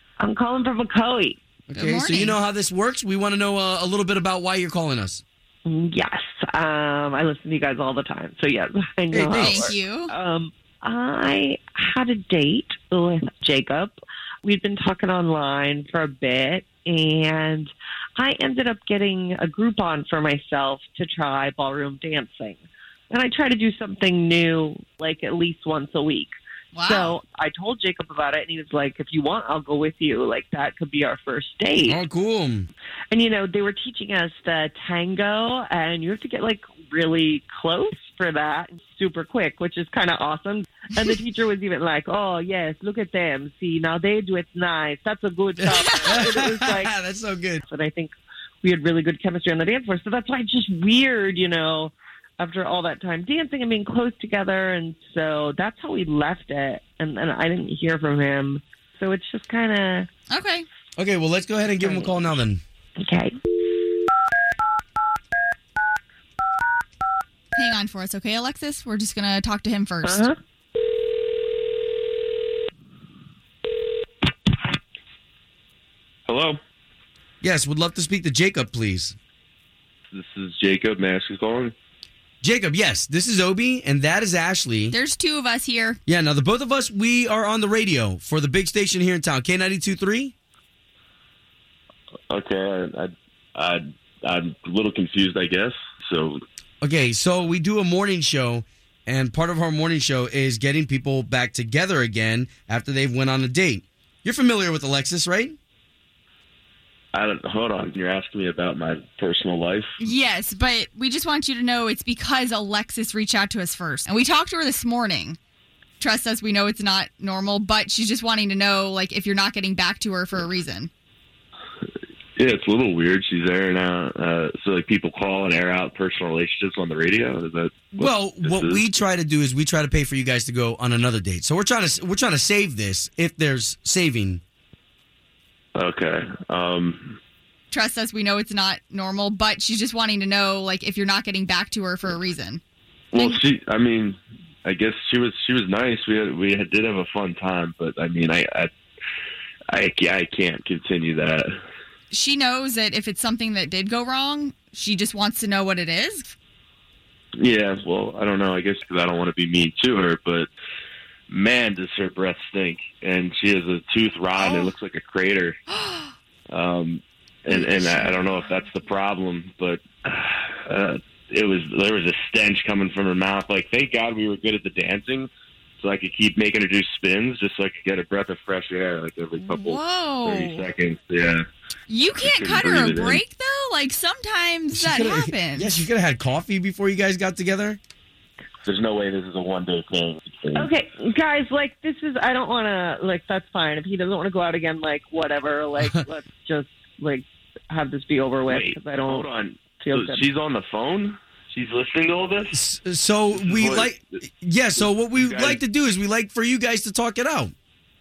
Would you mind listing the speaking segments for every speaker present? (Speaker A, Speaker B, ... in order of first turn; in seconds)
Speaker A: 0.2-1.4, 5.6-32.0, 33.1-46.9, 47.6-60.1, 61.8-62.3, 63.0-63.3, 70.0-70.3, 190.5-199.3, 199.8-200.3
Speaker B: 1.7-5.2, 31.9-32.7, 45.6-47.6, 61.0-62.6, 77.4-79.1, 82.4-84.9, 86.1-90.3, 96.8-105.5, 128.0-134.4, 184.7-187.8, 202.5-207.5
Speaker C: 1.7-2.4, 9.1-10.1, 26.7-27.1, 60.3-60.6, 67.5-70.2, 84.9-86.0, 110.0-115.4, 116.0-120.9, 137.7-142.6, 143.1-143.4, 152.1-156.3, 164.4-164.7, 165.7-166.1, 167.5-168.7, 179.4-180.6, 181.9-185.8
Speaker D: 76.3-76.6, 80.1-81.7, 92.3-96.4, 107.1-109.9, 122.4-128.9, 135.8-137.2, 143.1-148.7, 149.7-151.5, 157.4-160.5, 161.3-165.6, 166.5-181.4, 182.2-183.2, 188.7-190.7, 198.5-202.6, 203.3-204.0, 204.8-205.6